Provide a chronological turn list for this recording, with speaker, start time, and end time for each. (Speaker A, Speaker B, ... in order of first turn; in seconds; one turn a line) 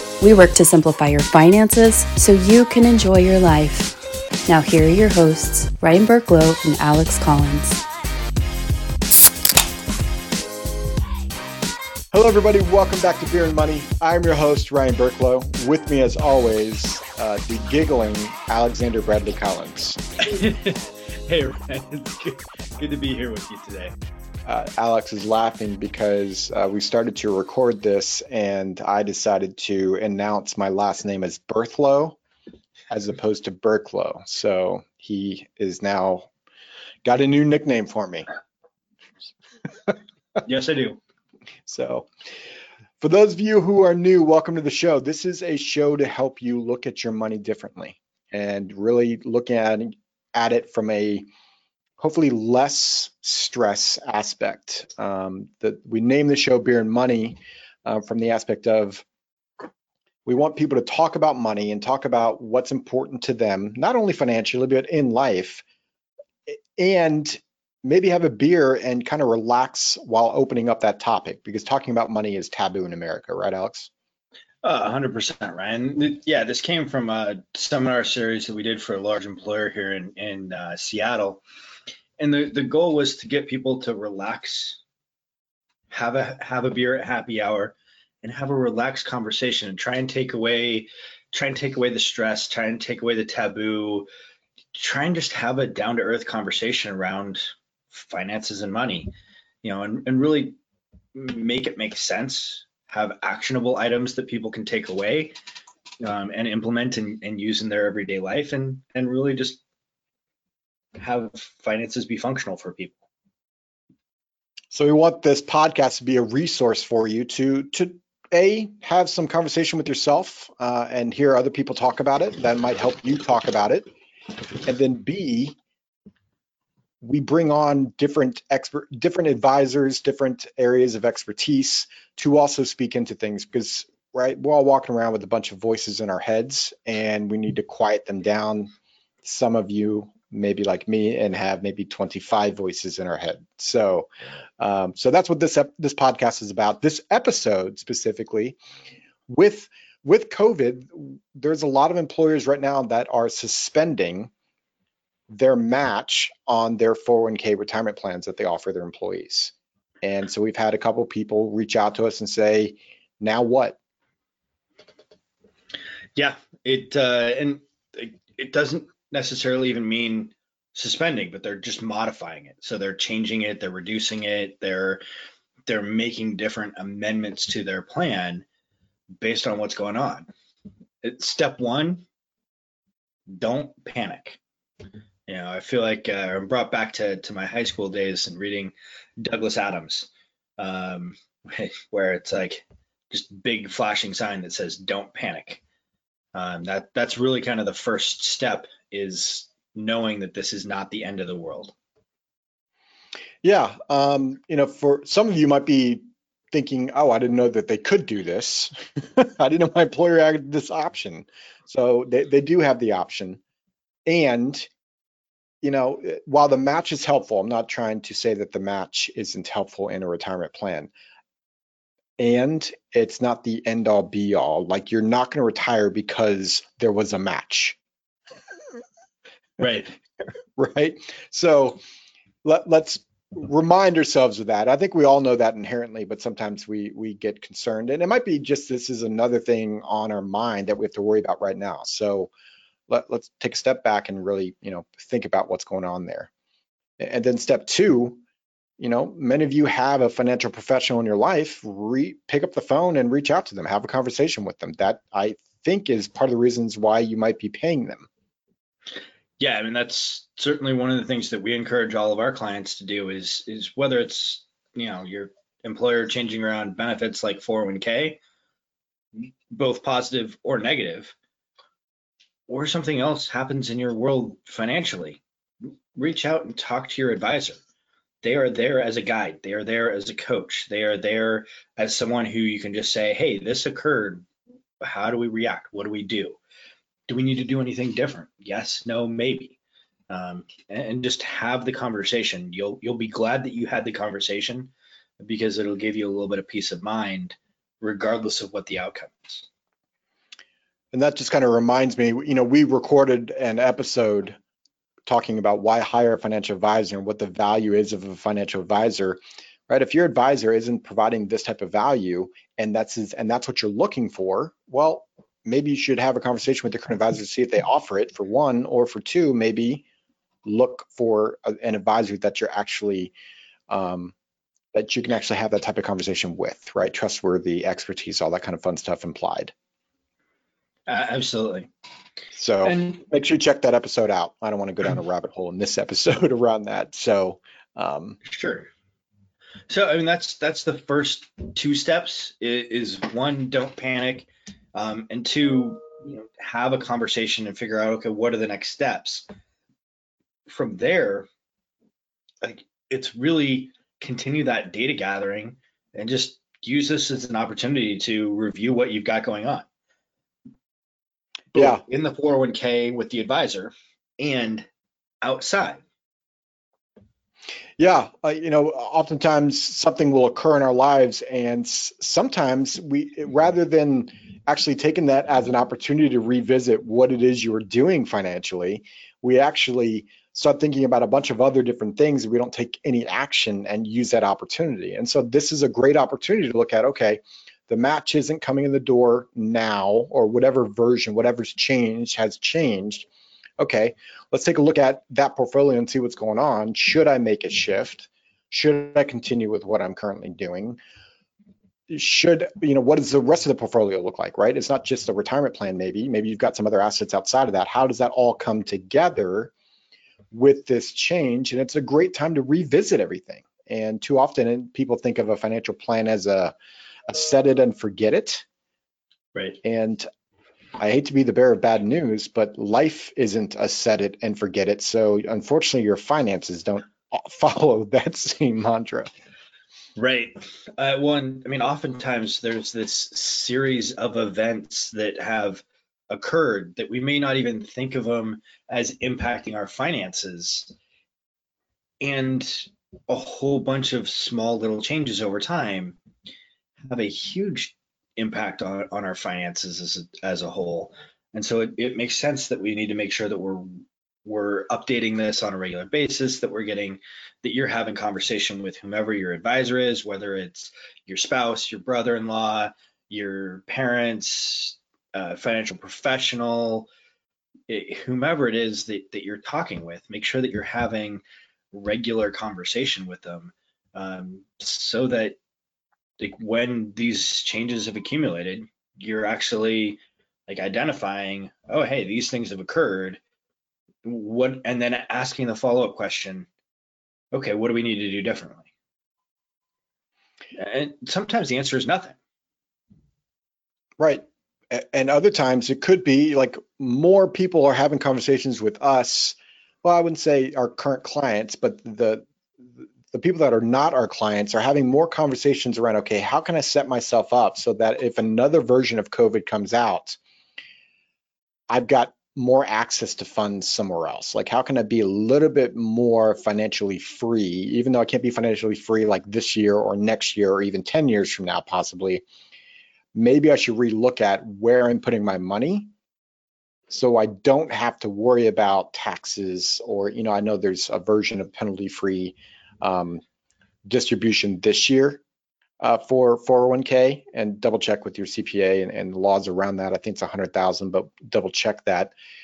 Speaker A: 0.2-3.9
Speaker A: 4.5-7.8
Speaker B: 12.1-20.0
Speaker C: 20.2-23.9
Speaker B: 24.5-32.2
Speaker B: 32.9-36.3
Speaker B: 37.0-38.3
Speaker C: 40.4-41.0
Speaker B: 41.7-42.1
Speaker B: 43.0-51.3
Speaker B: 52.0-59.0
Speaker B: 60.3-65.6
Speaker B: 66.5-73.9
Speaker C: 74.6-81.4
Speaker C: 82.2-84.8
Speaker C: 85.9-94.1
Speaker C: 94.8-99.1
Speaker C: 99.6-100.6
Speaker C: 101.2-105.4
Speaker C: 106.0-109.6
Speaker C: 111.0-113.0
Speaker B: 114.7-123.9
Speaker B: 124.6-125.6
Speaker B: 127.0-138.7
Speaker B: 139.2-144.1
Speaker B: 144.6-148.6
Speaker B: 149.3-154.3
Speaker B: 155.3-163.8
Speaker C: 166.2-175.0
Speaker C: 175.7-178.4
Speaker C: 179.2-180.3
Speaker C: 181.0-182.0
Speaker C: 183.3-184.4
Speaker C: 185.3-195.6
Speaker C: 196.3-201.7
Speaker B: 203.4-213.4
Speaker B: 214.1-214.7
Speaker B: 215.6-220.9
Speaker B: 222.2-227.8
Speaker C: 229.6-229.9
Speaker B: 230.6-231.8
Speaker B: 232.4-242.3
Speaker B: 242.9-246.3
Speaker B: 247.0-248.2
Speaker B: 248.8-258.1
Speaker C: 259.4-268.2
Speaker C: 269.2-271.1
Speaker C: 272.5-277.6
Speaker C: 278.2-284.3
Speaker C: 284.8-286.4
Speaker C: 287.1-289.6
Speaker C: 290.1-299.5
Speaker B: 300.9-304.4
Speaker B: 305.1-319.8
Speaker B: 320.4-323.1
Speaker B: 323.7-324.1
Speaker B: 324.7-329.5
Speaker C: 330.9-331.7
Speaker B: 332.4-338.2
Speaker C: 332.6-333.0
Speaker C: 338.2-338.7
Speaker C: 339.7-349.3
Speaker C: 350.5-351.3
Speaker C: 352.4-359.7
Speaker C: 361.5-364.7
Speaker B: 361.6-361.8
Speaker C: 365.2-365.8
Speaker B: 367.8-393.1
Speaker B: 393.6-400.8
Speaker B: 401.9-409.5
Speaker B: 410.3-416.6
Speaker B: 417.1-418.4
Speaker B: 419.6-420.1
Speaker B: 420.8-429.1
Speaker C: 430.0-440.7
Speaker C: 442.0-446.0
Speaker C: 446.9-466.9
Speaker C: 467.7-475.4
Speaker C: 476.2-483.2
Speaker C: 484.0-486.5
Speaker C: 487.3-488.7
Speaker C: 490.5-492.2
Speaker B: 494.0-510.2
Speaker B: 511.7-522.2
Speaker B: 523.1-525.9
Speaker B: 526.9-533.2
Speaker B: 533.9-535.2
Speaker B: 535.8-542.1